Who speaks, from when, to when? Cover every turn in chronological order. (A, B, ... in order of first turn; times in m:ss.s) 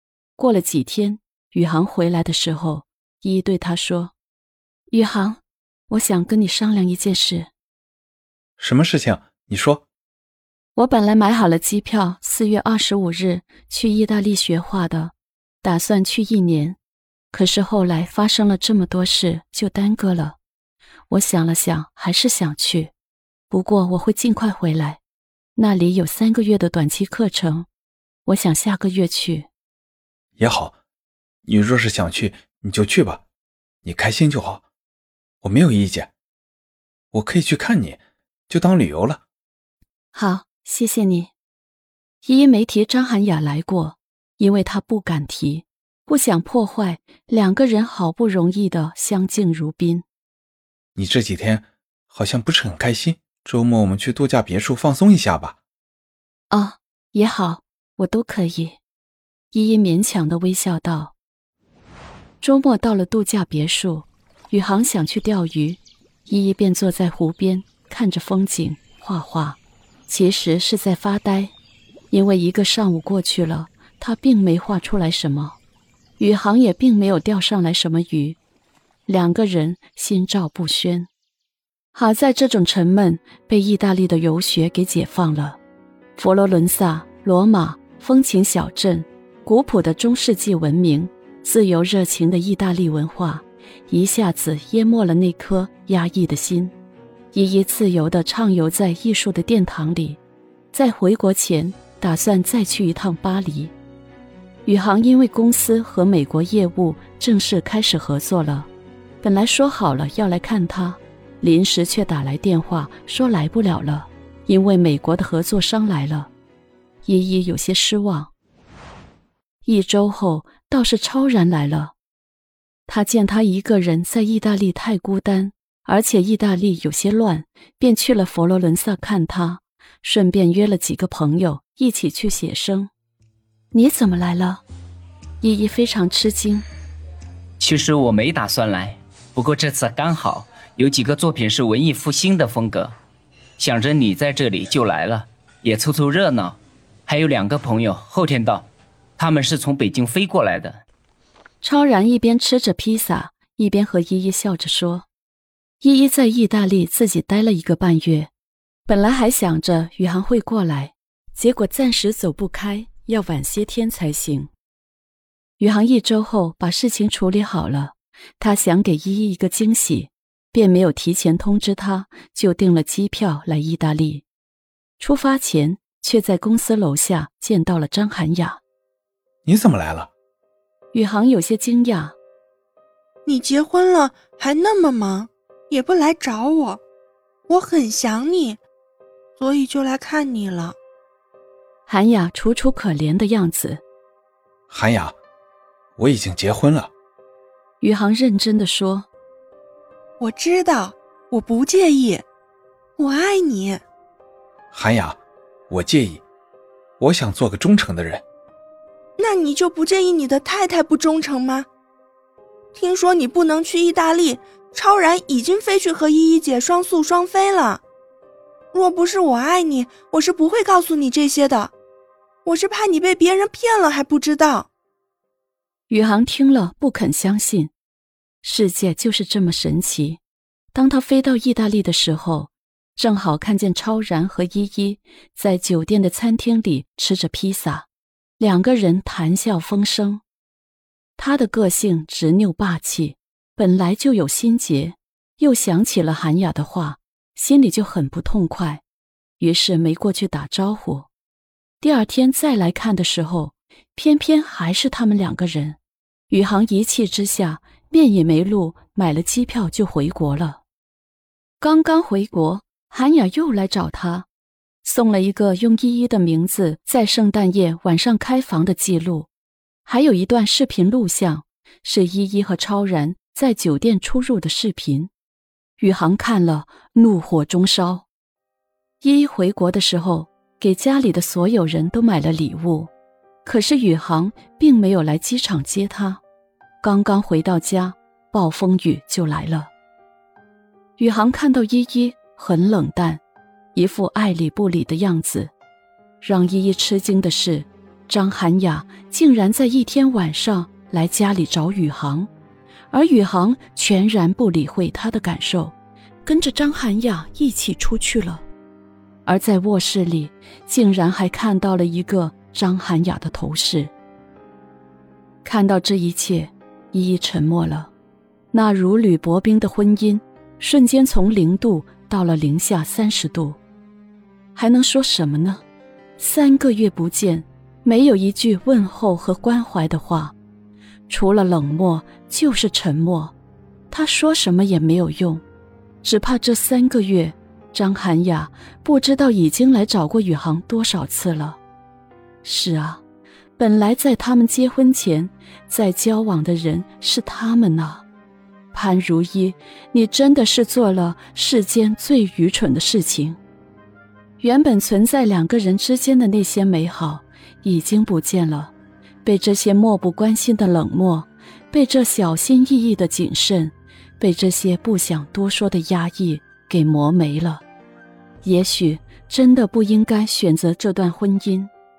0:00.4-0:04.1 A
0:04.9-0:07.5 A
0:08.6-0:09.8 B
0:10.8-0:16.8 A
0:17.3-0:20.4 A
0:21.1-0:22.9 A
0:23.5-0:25.0 A
0:25.6-0:27.7 A
0:28.3-0:29.5 A
0:30.4-0:30.8 B
0:31.4-0:33.2 B
0:33.8-0:34.6 B
0:35.4-0:36.1 B
0:37.1-0:39.2 B
0:40.1-0:41.3 A
0:42.2-0:50.0 A
0:51.0-0:55.6 B
0:56.5-0:58.8 A
0:59.5-1:01.1 A
1:02.4-1:11.5 A
1:12.1-1:15.6 A
1:16.2-1:18.4 A
1:19.1-1:21.1 A
1:21.9-1:25.6 A
1:26.2-1:36.7 A
1:37.3-1:40.2 A
1:40.7-1:43.7 A
1:44.7-1:48.7 A
1:49.2-1:56.3 A
1:57.0-1:58.3 A
1:59.6-2:02.0 A
2:02.9-2:12.9 A
2:13.7-2:14.6 A
2:15.4-2:16.7 A
2:17.6-2:22.9 C
2:23.6-2:30.8 C
2:31.6-2:35.1 A
2:35.8-2:38.3 A
2:38.9-2:44.5 A
2:45.6-2:54.2 A
2:55.0-2:58.6 A
2:59.4-3:00.1 B
3:00.9-3:02.2 A
3:03.3-3:06.8 D
3:07.5-3:08.6 D
3:09.4-3:10.8 D
3:11.9-3:13.8 A
3:14.7-3:15.2 B
3:16.0-3:16.9 B
3:17.8-3:19.1 A
3:20.2-3:22.2 D
3:23.0-3:23.8 D
3:24.7-3:26.2 B
3:27.0-3:28.2 B
3:29.2-3:31.7 D
3:32.8-3:37.8 D
3:38.7-3:41.7 D
3:42.4-3:44.7 D
3:45.9-3:47.7 A
3:48.4-3:50.2 A
3:50.7-3:57.9 A
3:58.4-4:00.2 A
4:01.2-4:08.8 A
4:09.4-4:11.1 A
4:11.8-4:15.8 A
4:16.3-4:20.6 A
4:21.6-4:24.3 A
4:24.8-4:29.3 A
4:29.9-4:35.1 A
4:35.8-4:38.1 A
4:39.0-4:42.9 A
4:43.4-4:46.2 A
4:46.8-4:49.7 A
4:51.0-4:53.2 A
4:53.7-4:55.5 A
4:56.2-5:02.3 A
5:02.9-5:05.7 A
5:06.2-5:08.4 A
5:09.3-5:13.9 A
5:15.4-5:17.9 A
5:18.5-5:23.6 A
5:24.6-5:25.6 A
5:26.2-5:30.4 A
5:31.1-5:33.3 A
5:33.9-5:35.4 A
5:36.0-5:41.6 A
5:42.4-5:43.0 A
5:43.6-5:48.0 A
5:48.7-5:53.4 A
5:54.4-5:58.7 A
5:59.2-6:07.6 A
6:08.4-6:11.7 A